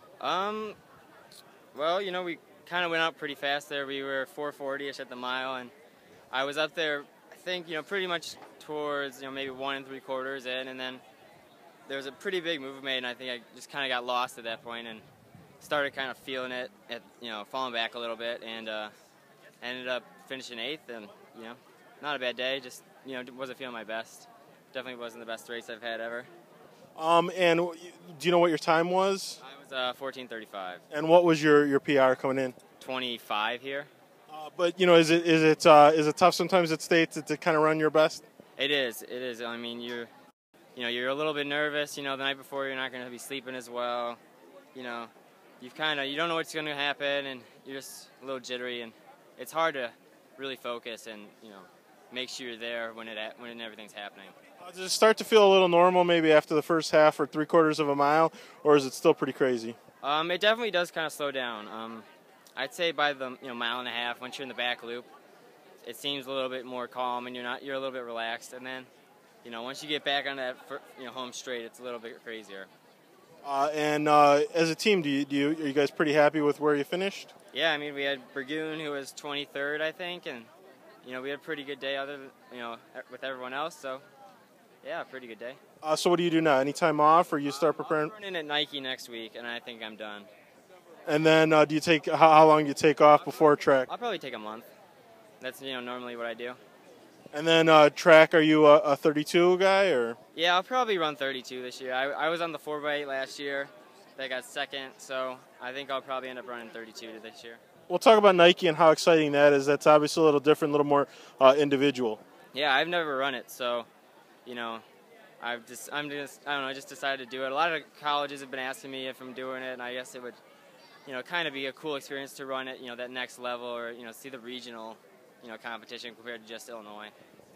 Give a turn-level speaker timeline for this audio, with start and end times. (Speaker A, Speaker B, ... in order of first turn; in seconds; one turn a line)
Speaker A: 0.2-0.8
Speaker A: 1.7-5.7
Speaker A: 6.3-11.0
Speaker A: 11.9-15.1
Speaker A: 15.6-18.9
Speaker A: 19.6-26.3
Speaker B: 27.0-29.4
Speaker A: 29.4-30.8
Speaker B: 30.9-32.5
Speaker A: 32.8-33.9
Speaker B: 34.3-38.2
Speaker A: 38.6-40.1
Speaker A: 40.8-44.2
Speaker A: 44.8-54.4
Speaker B: 54.6-59.8
Speaker A: 60.0-62.1
Speaker A: 62.6-65.1
Speaker A: 65.8-68.9
Speaker A: 69.4-72.7
Speaker B: 73.4-77.3
Speaker A: 77.5-80.5
Speaker A: 81.0-84.0
Speaker A: 84.8-85.6
Speaker B: 85.8-88.1
Speaker A: 87.5-90.3
Speaker B: 91.1-93.9
Speaker A: 93.9-94.7
Speaker A: 95.4-96.6
Speaker B: 97.3-100.2
Speaker A: 100.3-107.6
Speaker B: 107.9-112.2
Speaker A: 112.5-113.9
Speaker A: 114.5-114.8
Speaker A: 115.4-120.4
Speaker A: 121.1-127.1